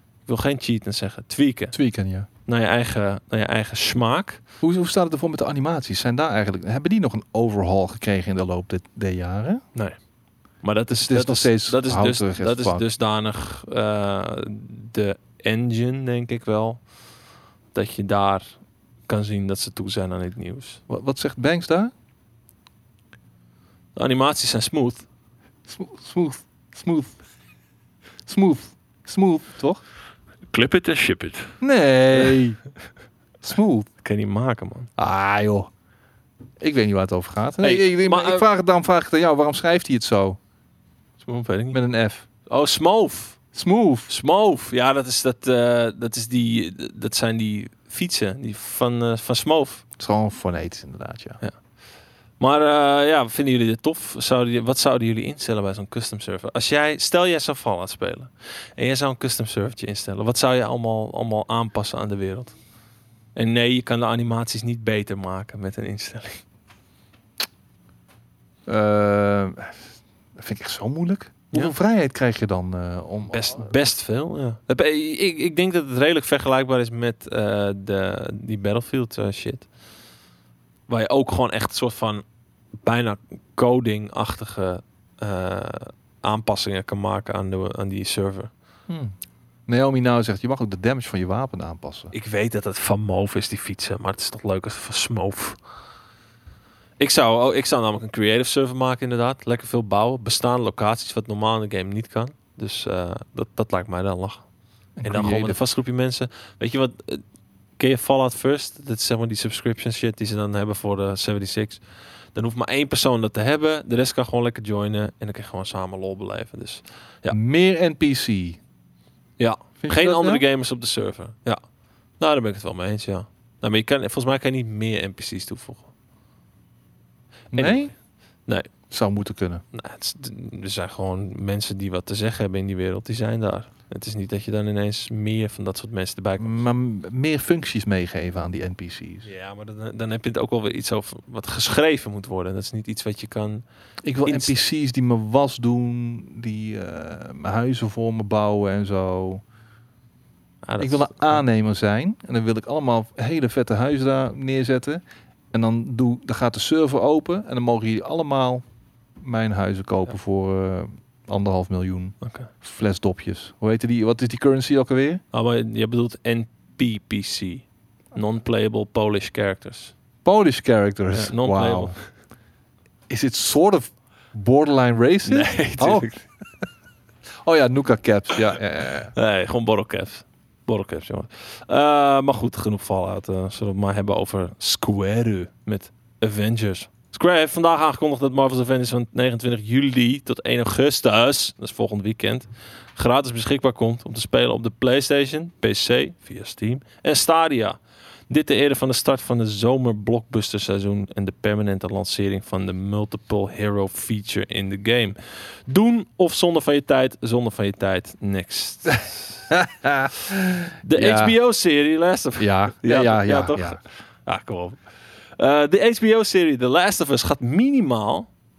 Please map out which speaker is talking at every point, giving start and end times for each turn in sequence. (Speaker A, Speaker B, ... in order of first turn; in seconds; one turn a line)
Speaker A: 0.2-1.7
Speaker B: 1.7-2.3
Speaker A: 2.5-4.4
Speaker B: 4.6-9.6
Speaker A: 10.6-16.8
Speaker B: 11.0-12.8
Speaker A: 17.7-20.8
Speaker B: 20.9-21.9
Speaker A: 23.9-25.0
Speaker B: 25.7-27.2
Speaker B: 28.3-29.8
Speaker A: 30.5-31.6
Speaker B: 31.6-32.6
Speaker B: 33.4-33.9
Speaker A: 34.0-34.9
Speaker B: 35.0-35.7
Speaker B: 36.6-40.4
Speaker A: 37.6-38.5
Speaker A: 41.2-41.8
Speaker B: 41.7-42.2
Speaker A: 42.5-43.4
Speaker B: 43.5-44.1
Speaker A: 44.1-49.8
Speaker B: 50.0-51.4
Speaker A: 52.4-62.5
Speaker A: 63.3-66.4
Speaker B: 68.7-73.7
Speaker A: 73.3-79.7
Speaker A: 80.9-82.2
Speaker A: 82.8-88.5
Speaker B: 88.9-89.1
Speaker B: 89.7-92.1
Speaker A: 92.1-95.6
Speaker A: 97.0-104.4
Speaker B: 105.0-105.6
Speaker A: 105.0-107.2
Speaker A: 107.8-111.8
Speaker A: 112.3-117.4
Speaker B: 117.3-118.6
Speaker A: 119.4-121.6
Speaker B: 119.8-120.4
Speaker A: 122.2-125.9
Speaker A: 127.5-127.9
Speaker B: 127.5-127.9
Speaker B: 128.9-129.6
Speaker A: 129.7-136.6
Speaker B: 136.4-139.3
Speaker A: 139.2-143.6
Speaker B: 144.0-149.4
Speaker A: 144.2-144.5
Speaker A: 150.6-151.4
Speaker B: 150.8-158.6
Speaker B: 159.2-165.2
Speaker A: 162.2-162.5
Speaker A: 165.3-169.9
Speaker B: 170.2-172.0
Speaker A: 171.1-172.0
Speaker B: 173.1-176.1
Speaker A: 175.2-176.2
Speaker B: 177.4-179.1
Speaker A: 179.1-197.8
Speaker A: 198.3-209.5
Speaker B: 209.5-211.3
Speaker A: 210.8-214.8
Speaker B: 212.4-213.8
Speaker A: 215.4-218.3